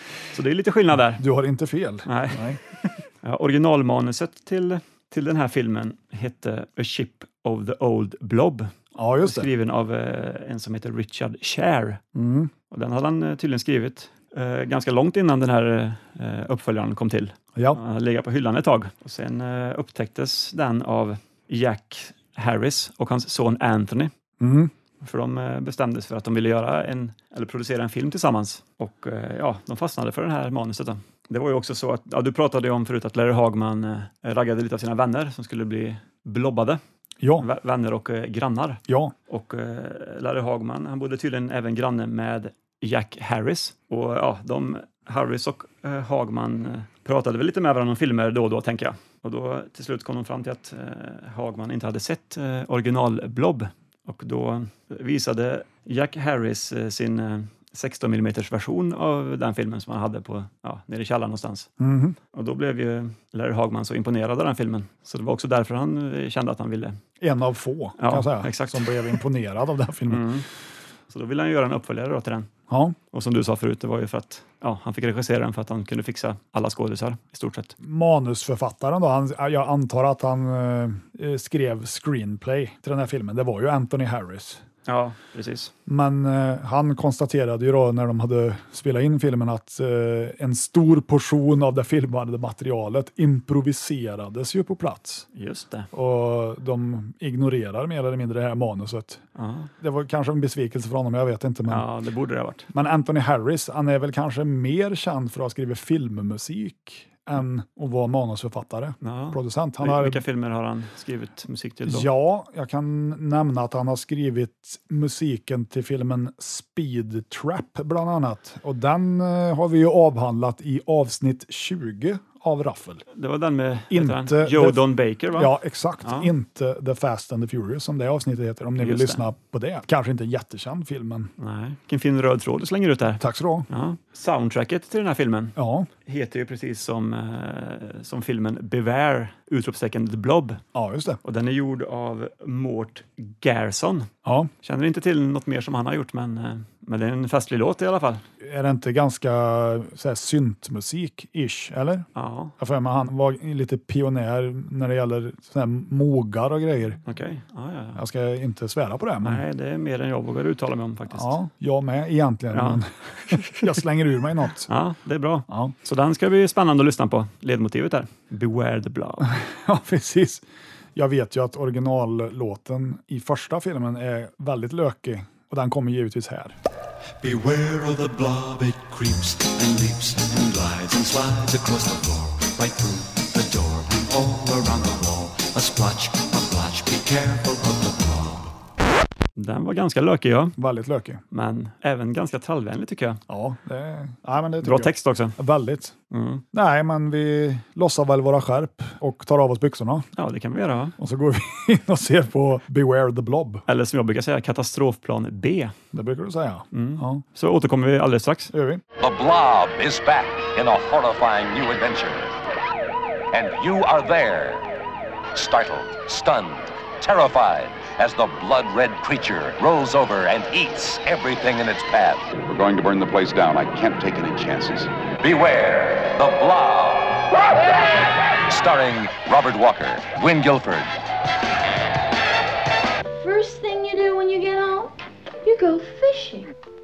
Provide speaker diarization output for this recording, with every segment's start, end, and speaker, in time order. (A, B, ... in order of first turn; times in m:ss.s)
0:00.3-0:01.2 A
0:01.1-0:02.6 B
0:02.1-0:12.0 A
0:09.0-0:09.5 B
0:12.2-0:12.5 B
0:12.7-0:24.1 A
0:17.6-0:17.8 B
0:24.4-0:24.7 B
0:25.0-0:36.8 A
0:37.2-0:37.5 B
0:37.4-1:01.7 A
0:38.9-0:39.1 B
1:01.8-1:02.2 B
1:02.3-1:07.0 A
1:07.2-1:10.3 B
1:08.0-1:09.2 A
1:10.1-1:10.5 A
1:11.1-1:12.5 A
1:12.7-1:13.0 B
1:13.1-1:17.7 A
1:17.8-1:24.6 B
1:24.9-1:25.7 A
1:25.9-1:35.3 B
1:35.3-1:35.9 A
1:35.9-1:39.2 B
1:39.4-1:39.7 A
1:39.8-1:41.9 B
1:41.7-1:42.7 A
1:42.7-1:50.2 B
1:49.0-1:52.1 A
1:51.8-2:03.0 B
2:03.1-2:06.3 A
2:03.9-2:11.3 B
2:08.8-2:09.3 A
2:11.4-2:20.6 A
2:13.2-2:13.7 B
2:15.6-2:15.9 B
2:20.7-2:21.2 B
2:21.2-2:24.1 A
2:24.2-2:24.5 B
2:24.6-2:28.2 A
2:28.4-2:32.1 B
2:32.2-2:32.5 A
2:32.6-2:37.0 B
2:37.1-2:38.0 A
2:38.0-2:39.4 B
2:39.2-2:41.4 A
2:41.1-2:44.7 B
2:42.5-2:43.7 A
2:44.7-2:49.4 A
2:45.5-2:45.7 B
2:49.2-2:50.4 B
2:51.0-2:56.5 B
2:57.2-3:08.5 C
3:09.4-3:10.6 A
3:10.6-3:11.2 B
3:11.3-3:13.2 A
3:13.3-3:15.9 B
3:14.6-3:15.4 A
3:16.1-3:16.4 A
3:16.5-3:20.1 B
3:20.2-3:21.0 A
3:21.0-3:23.6 B
3:23.7-3:25.7 A
3:25.9-3:27.2 B
3:26.7-3:28.5 A
3:28.5-3:28.8 B
3:29.0-3:32.4 D
3:33.3-3:34.7 D
3:35.3-3:42.3 D
3:42.4-3:44.9 E
3:45.2-3:47.5 D
3:48.5-3:50.9 D
3:53.2-3:56.5 F